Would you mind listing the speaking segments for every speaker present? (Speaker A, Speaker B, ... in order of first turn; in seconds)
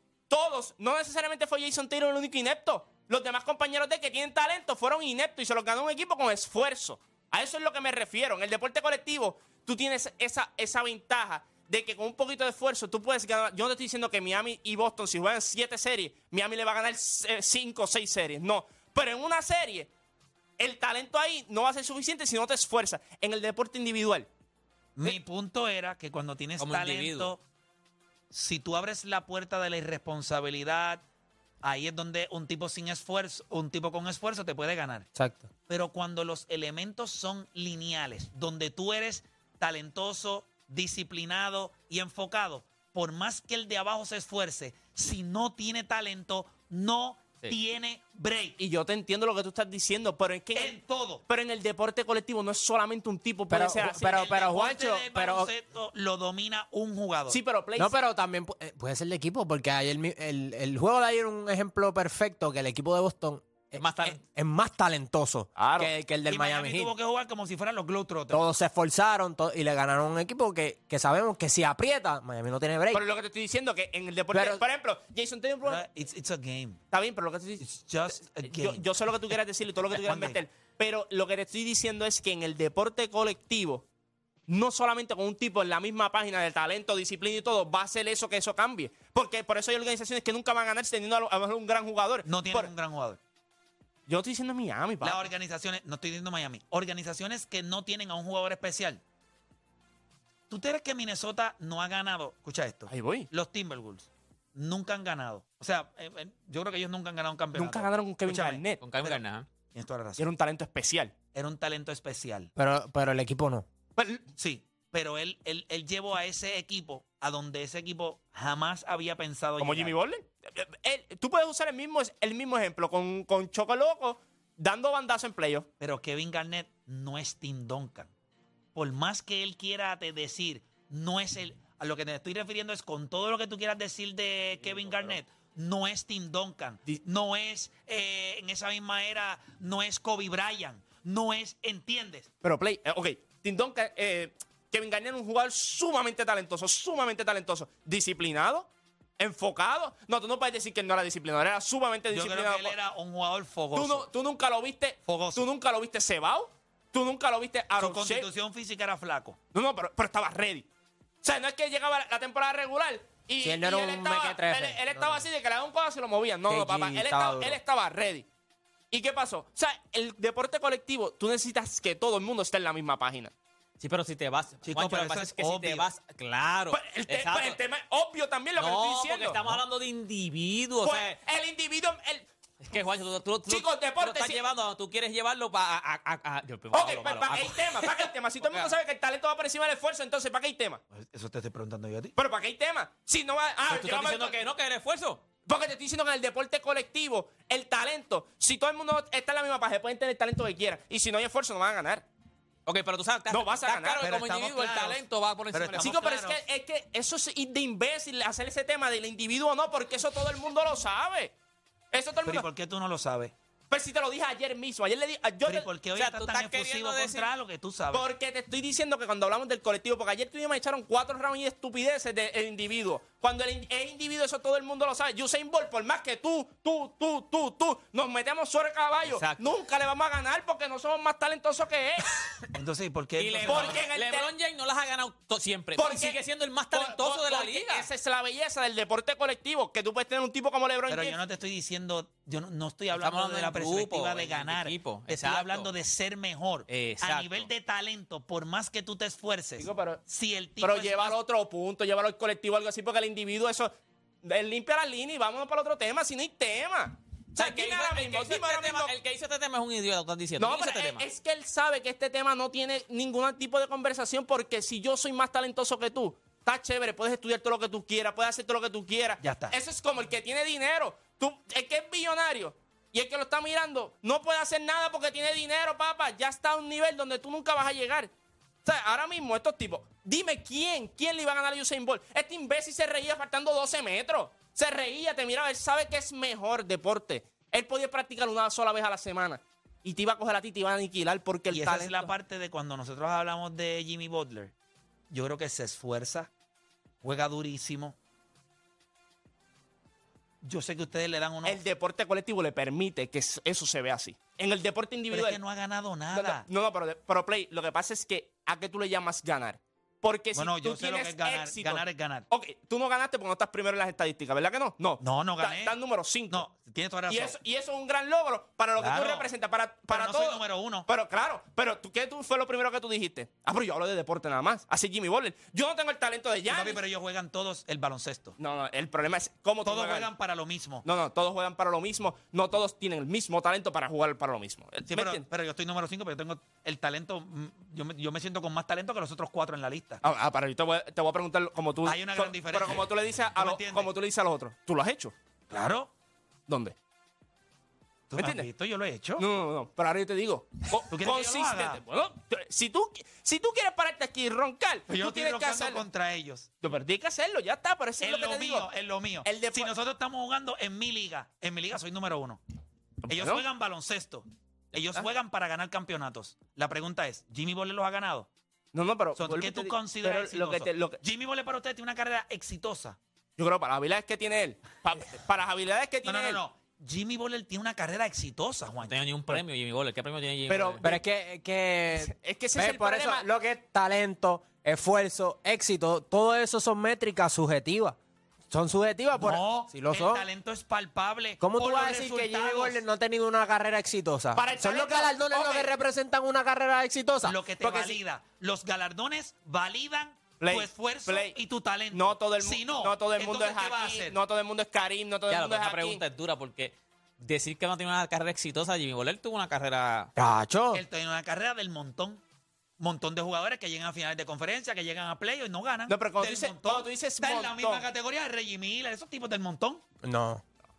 Speaker A: 0.3-19.9, 20.6-24.3, 48.6-54.2, 57.3-57.9, 65.6-65.9, 72.9-75.8, 76.9-83.8, 84.5-92.7, 94.1-95.3, 102.9-103.3, 107.5-108.8, 110.2-111.1, 114.0-114.2, 119.6-125.7, 134.6-135.2, 142.4-148.7, 149.2-152.8, 153.7-158.3, 159.5-160.7, 161.2-168.2, 168.9-173.3, 176.7-179.6, 180.8-182.3, 183.5-184.4, 186.7-190.8, 192.2-194.4, 195.4-202.1, 203.3-204.1, 205.8-211.3, 211.9-212.5, 213.7-215.7, 217.9-232.3, 233.4-234.3, 235.8-236.2, 236.7-241.2, 249.6-250.0, 250.6-253.7, 254.2-258.9, 260.4-278.1, 278.6-292.1, 301.4-305.4, 306.1-316.4, 317.1-326.8, 328.4-330.1, 330.8-335.2, 340.0-345.1, 346.5-346.8, 348.1-348.5, 349.2-355.8, 356.6-358.7, 359.2-359.7, 363.0-363.4, 368.7-371.0, 373.4-376.4, 380.5-381.0, 382.0-383.3, 394.3-395.7, 397.6-398.0, 400.4-401.4, 401.9-406.0, 415.9-417.9
Speaker B: 24.9-27.4, 28.3-31.0, 31.6-35.1, 35.7-48.6, 50.5-51.2, 54.0-57.4, 66.3-68.4, 75.6-76.8, 77.6-78.8, 80.0-80.4, 92.2-93.2, 95.0-99.0, 100.5-109.2, 109.7-110.2, 111.3-112.5, 114.4-119.9, 125.8-128.1, 128.7-142.3, 152.1-154.1, 155.1-155.4, 157.8-159.4, 174.6-175.9, 190.9-192.2, 204.0-206.4, 212.2-213.3, 215.4-218.0, 232.5-233.8, 240.9-251.2, 269.2-269.5, 291.5-294.5, 295.1-296.3, 297.0-297.9, 300.4-301.6, 305.1-306.4, 310.3-312.3, 315.0-315.7, 316.3-317.4, 318.8-319.3, 319.9-320.9, 326.5-328.4, 329.6-330.8, 334.9-340.0, 341.8-343.9, 345.5-345.9, 348.1-349.2, 350.9-351.8, 354.9-356.5, 358.0-362.4, 363.1-368.3, 369.2-373.0, 376.1-379.0, 389.1-392.8, 397.2-404.1, 410.7-412.2, 412.8-419.8
Speaker C: 26.6-27.3, 63.8-64.2, 108.8-109.5, 173.8-177.6, 178.6-181.2, 182.6-188.7, 193.7-195.2, 202.7-206.1, 215.9-217.3, 229.0-229.4, 233.2-237.9, 242.9-245.7, 246.7-247.5, 257.3-261.0, 378.8-380.9, 405.3-410.1
Speaker D: 35.1-35.5, 53.5-55.5, 57.8-66.9, 68.3-73.0, 74.3-74.6, 112.5-113.7, 163.4-165.2, 166.5-167.6, 380.8-387.9, 388.5-390.2, 391.4-397.4, 410.1-410.8, 420.0-420.4